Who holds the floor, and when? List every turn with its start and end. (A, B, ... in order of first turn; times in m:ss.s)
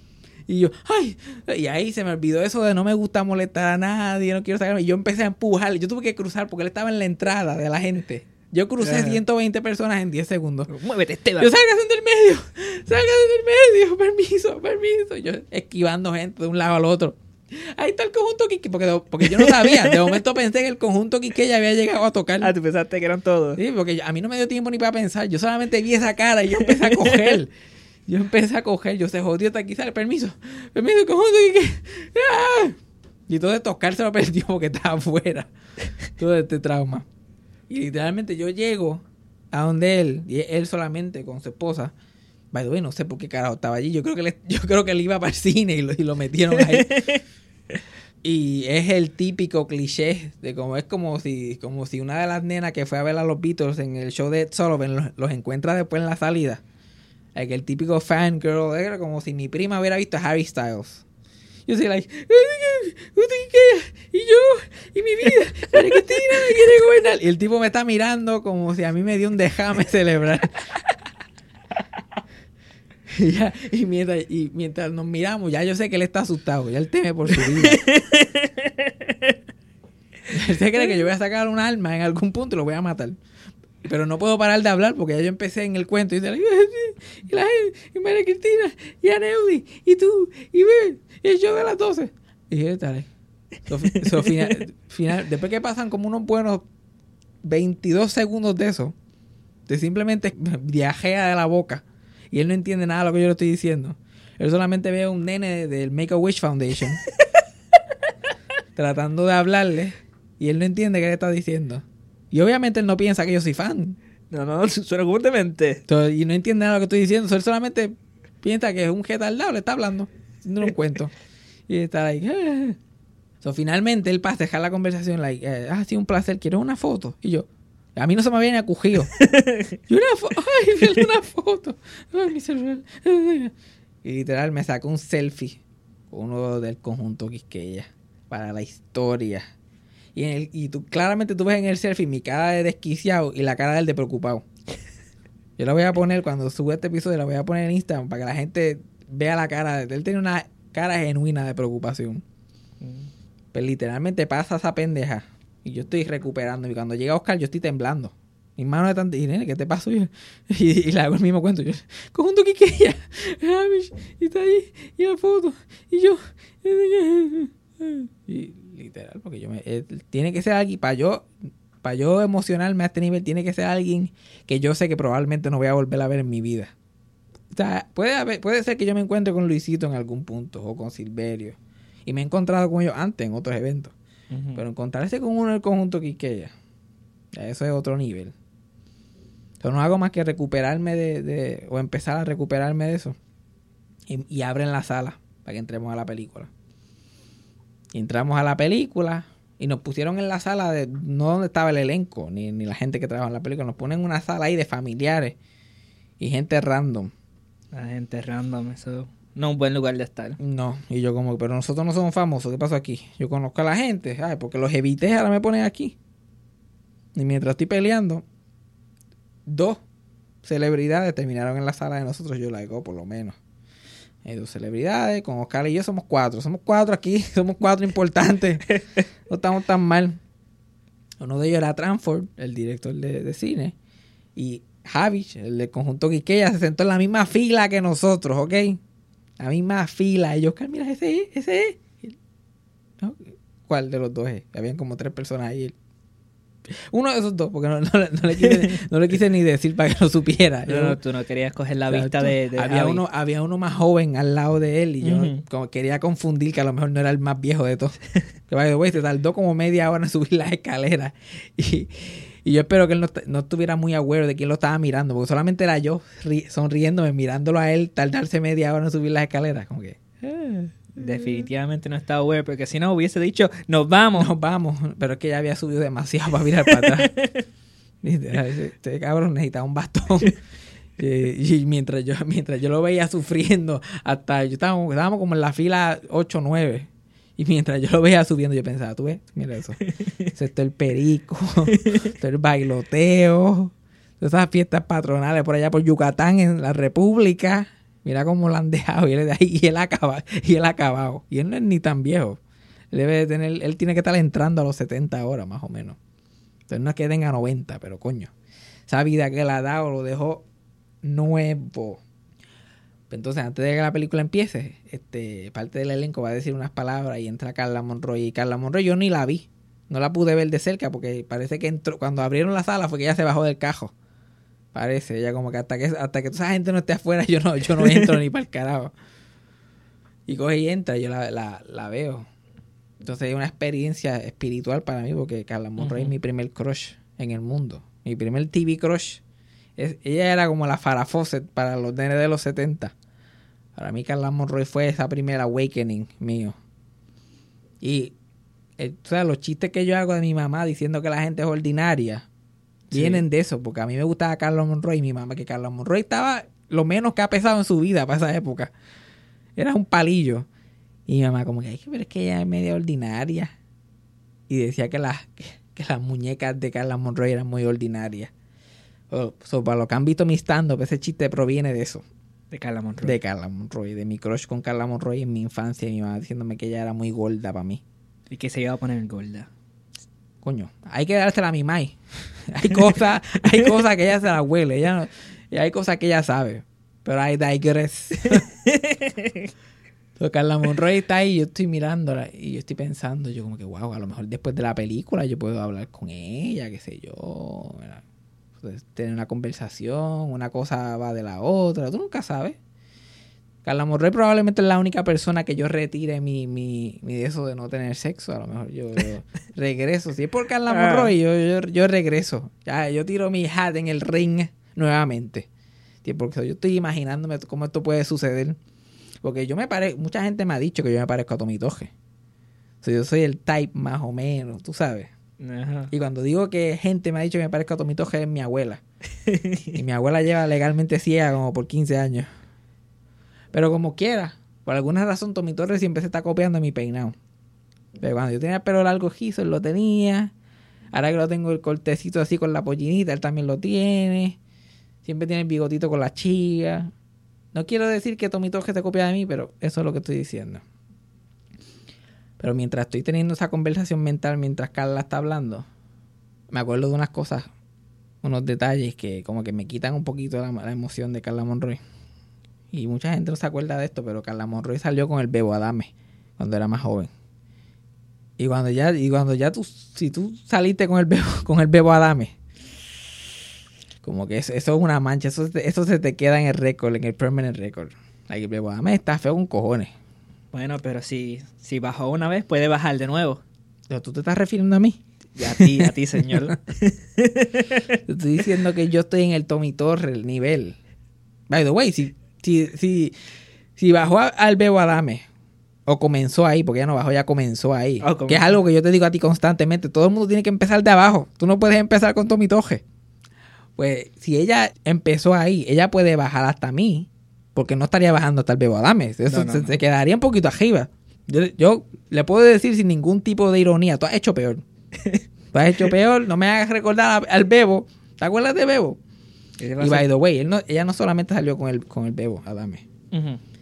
0:00.5-0:10.7 A
0:08.8-0:09.2 B
0:10.7-0:11.5 B
0:11.4-0:22.5 A
0:19.2-0:20.2 B
0:22.4-0:23.6 B
0:23.6-0:27.5 A
0:26.6-0:27.4 B
0:28.1-0:35.5 A
0:36.2-0:37.0 A
0:37.7-0:41.9 A
0:42.5-0:47.1 A
0:46.6-0:47.2 B
0:48.2-0:56.6 A
0:57.3-1:01.0 A
1:01.7-1:10.6 A
1:05.8-1:06.6 B
1:13.1-1:17.8 A
1:17.4-1:19.3 B
1:20.3-1:23.2 A
1:23.8-1:33.1 A
1:33.7-1:36.6 A
1:33.8-1:34.5 B
1:37.4-1:38.9 A
1:39.7-1:47.0 A
1:48.8-1:54.0 A
1:54.3-1:55.8 B
1:55.9-2:01.1 A
2:01.7-2:02.8 A
2:03.4-2:09.1 A
2:09.2-2:09.7 B
2:09.9-2:13.5 A
2:14.0-2:15.6 A
2:16.1-2:19.4 A
2:20.1-2:24.4 A
2:25.6-2:32.2 A
2:32.8-2:33.1 B
2:33.5-2:51.3 A
2:51.8-2:56.7 A
2:57.5-3:03.9 A
3:04.3-3:04.6 B
3:04.5-3:06.5 A
3:07.3-3:08.3 A
3:09.6-3:13.2 A
3:14.1-3:16.5 A
3:17.9-3:25.3 A
3:26.2-3:27.1 A
3:27.7-3:30.4 B
3:30.4-3:35.9 A
3:37.1-3:38.2 A
3:39.4-3:39.8 A
3:40.4-3:43.4 A
3:44.2-3:48.8 A
3:49.3-3:50.2 A
3:51.2-3:53.7 A
3:54.4-3:58.8 A
3:59.4-4:02.1 A
4:03.0-4:05.7 A
4:06.9-4:11.0 A
4:08.4-4:08.6 B
4:10.7-4:13.0 B
4:11.9-4:18.0 A
4:15.0-4:15.4 B
4:18.5-4:31.4 A
4:31.0-4:34.3 B
4:34.2-4:37.1 A
4:36.7-4:37.3 B
4:38.0-4:40.4 A
4:41.0-5:02.4 A
5:02.9-5:06.0 A
5:06.7-5:08.3 A
5:08.9-5:10.4 A
5:11.0-5:12.0 A
5:13.1-5:23.9 A
5:24.7-5:28.9 A
5:27.8-5:28.1 B
5:30.3-5:32.2 A
5:33.0-5:39.2 A
5:35.8-5:36.1 B
5:39.8-5:42.9 A
5:43.7-5:46.6 A
5:47.8-5:48.1 A
5:48.8-5:52.3 A
5:52.9-5:53.2 B
5:52.9-5:58.7 A
5:59.6-6:00.5 A
6:01.1-6:03.5 A
6:04.5-6:08.3 A
6:09.1-6:12.0 A
6:12.5-6:13.2 B
6:13.0-6:17.8 A
6:18.3-6:19.5 B
6:20.4-6:22.0 A
6:22.5-6:28.4 A
6:28.7-6:29.5 B
6:30.2-6:38.0 A
6:38.6-6:42.6 A
6:43.6-6:55.5 A
6:50.7-6:51.1 B
6:56.0-6:58.6 A
6:59.2-7:01.9 A
7:02.8-7:05.1 A
7:05.4-7:05.9 B
7:05.9-7:08.8 A
7:09.3-7:09.7 B
7:09.7-7:12.3 A
7:13.5-7:17.1 A
7:18.0-7:20.3 A
7:20.9-7:24.4 A
7:25.0-7:26.9 A
7:27.5-7:30.6 A
7:32.4-7:35.6 A
7:36.5-7:37.5 A
7:38.2-7:41.8 A
7:42.7-7:47.1 A
7:48.4-7:52.3 A
7:54.0-7:59.9 A
8:00.5-8:03.4 B
8:03.9-8:05.9 A
8:05.3-8:07.9 B
8:08.0-8:10.8 A
8:11.5-8:13.1 A
8:13.8-8:15.2 A
8:15.8-8:22.8 A
8:18.0-8:18.5 B
8:23.8-8:34.6 A
8:29.2-8:29.8 B
8:35.5-8:39.0 A
8:39.6-8:40.1 B
8:39.8-8:42.8 A
8:43.1-8:43.4 B